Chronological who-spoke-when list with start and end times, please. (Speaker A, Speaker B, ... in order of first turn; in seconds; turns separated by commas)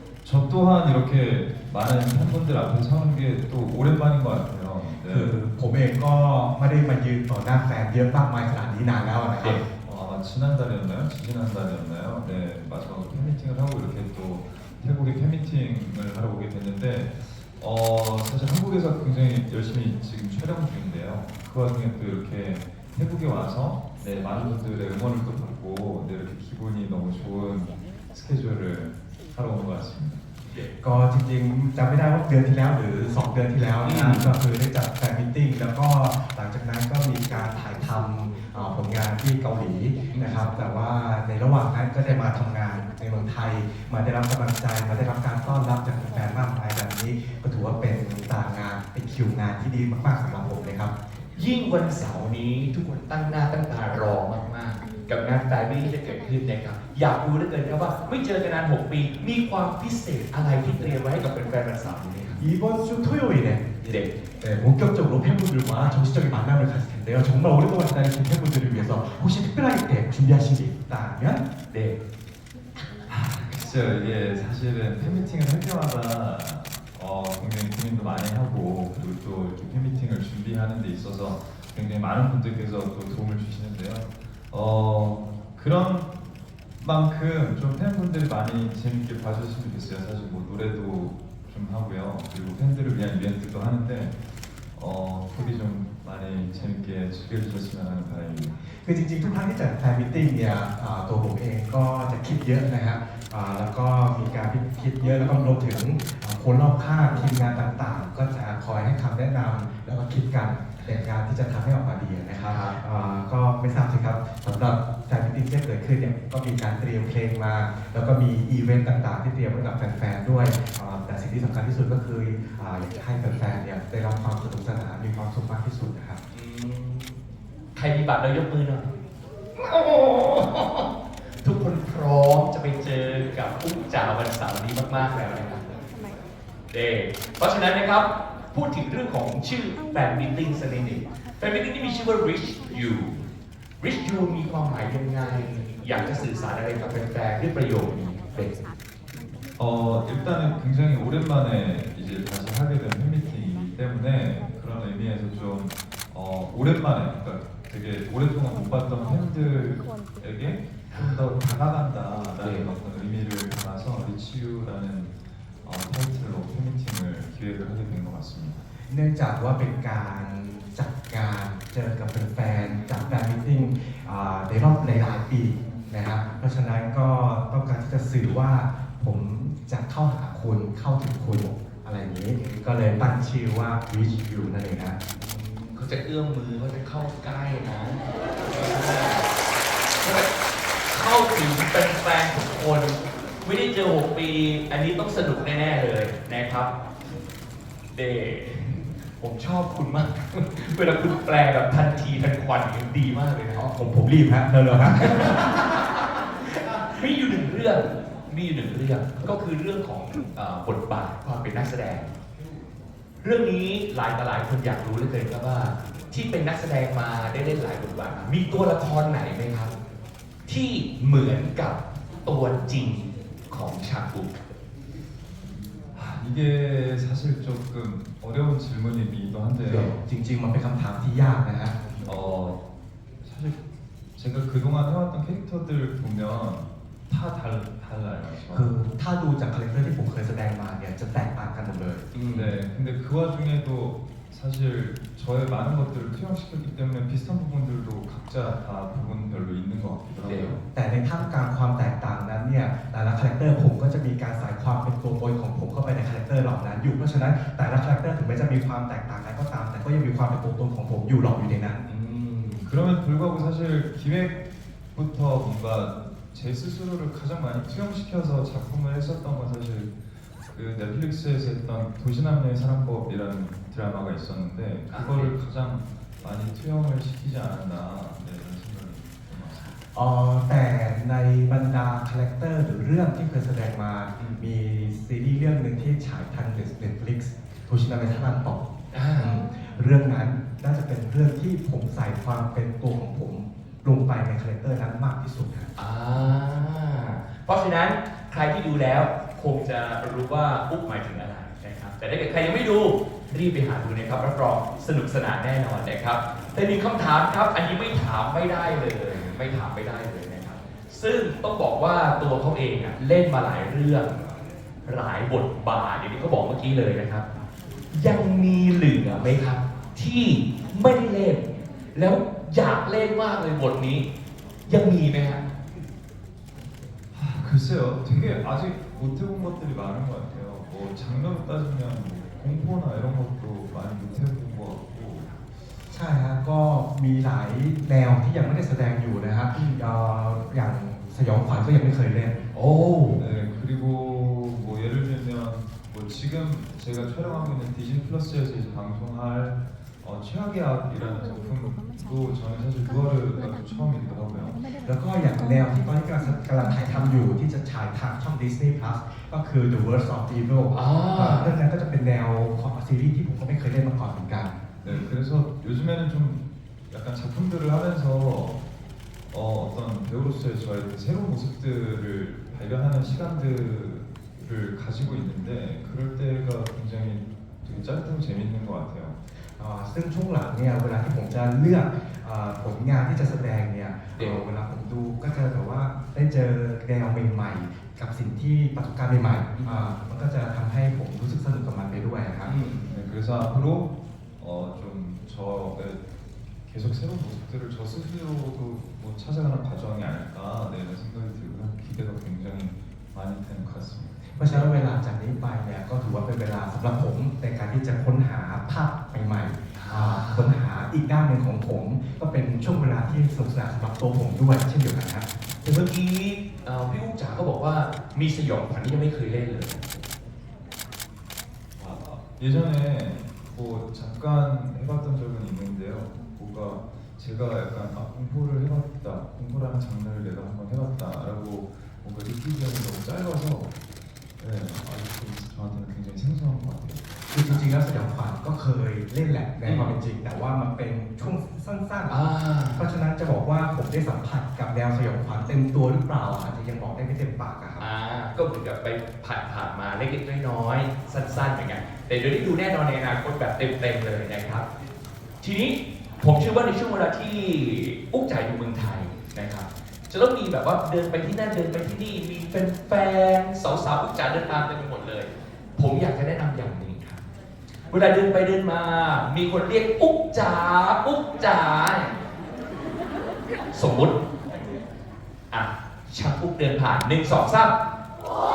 Speaker A: 0.2-5.4, Speaker B: 5.1-9.7, Speaker A: 9.8-30.2, Speaker B: 30.8-50.9, Speaker C: 33.8-34.3, Speaker C: 40.1-40.5, Speaker C: 51.4-62.4, Speaker B: 62.4-71.5, Speaker C: 71.7-72.0, Speaker A: 73.1-86.1, Speaker A: 86.8-94.1, Speaker A: 94.8-98.5, Speaker B: 98.8-126.2, Speaker C: 112.5-112.8, Speaker C: 126.3-127.2, Speaker C: 127.8-128.9, Speaker C: 129.6-130.9, Speaker C: 131.4-135.7, Speaker C: 136.7-143.2, Speaker C: 143.8-148.5, Speaker A: 149.6-165.1, Speaker C: 160.9-161.2, Speaker C: 162.4-162.7, Speaker A: 165.7-168.6, Speaker B: 168.9-185.0, Speaker C: 182.4-182.7, Speaker C: 185.2-189.3, Speaker C: 190.0-190.3, Speaker C: 190.9-196.7, Speaker C: 197.9-203.7, Speaker B: 203.6-205.6, Speaker C: 204.9-206.0, Speaker C: 206.9-212.1, Speaker C: 213.2-219.7, Speaker C: 220.5-224.4, Speaker A: 225.9-230.0, Speaker C: 229.7-230.0, Speaker B: 229.7-231.8, Speaker A: 232.0-232.6, Speaker A: 233.2-233.6, Speaker A: 234.2-238.7, Speaker B: 238.5-242.1, Speaker C: 242.1-242.6, Speaker A: 242.3-250.6, Speaker C: 250.2-250.5, Speaker B: 250.7-261.9, Speaker C: 261.9-262.7, Speaker A: 262.6-264.4, Speaker A: 264.9-269.9, Speaker A: 270.5-279.7, Speaker C: 274.9-275.3, Speaker B: 279.9-295.7, Speaker C: 284.2-284.5, Speaker C: 288.9-289.4, Speaker C: 295.8-314.2, Speaker C: 314.9-317.3, Speaker C: 317.9-324.1, Speaker C: 324.7-325.4, Speaker A: 327.1-335.3, Speaker B: 335.9-342.4, Speaker C: 339.5-339.8, Speaker C: 342.5-343.2, Speaker A: 343.2-354.8, Speaker B: 354.8-364.6, Speaker C: 360.7-361.5, Speaker C: 364.8-365.1, Speaker A: 364.8-368.6, Speaker A: 369.3-379.2, Speaker B: 379.6-392.6, Speaker C: 389.5-389.9, Speaker C: 392.4-392.9, Speaker A: 392.9-396.0, Speaker A: 396.7-404.2, Speaker B: 404.4-415.3, Speaker C: 409.8-410.6, Speaker C: 415.6-420.1, Speaker A: 421.8-433.7, Speaker A: 434.4-437.6, Speaker B: 437.3-442.2, Speaker C: 439.6-440.0, Speaker C: 442.1-442.9, Speaker B: 442.8-447.9, Speaker C: 447.8-454.7, Speaker C: 455.4-467.2, Speaker C: 467.9-472.2, Speaker C: 473.7-474.2, Speaker C: 475.5-477.7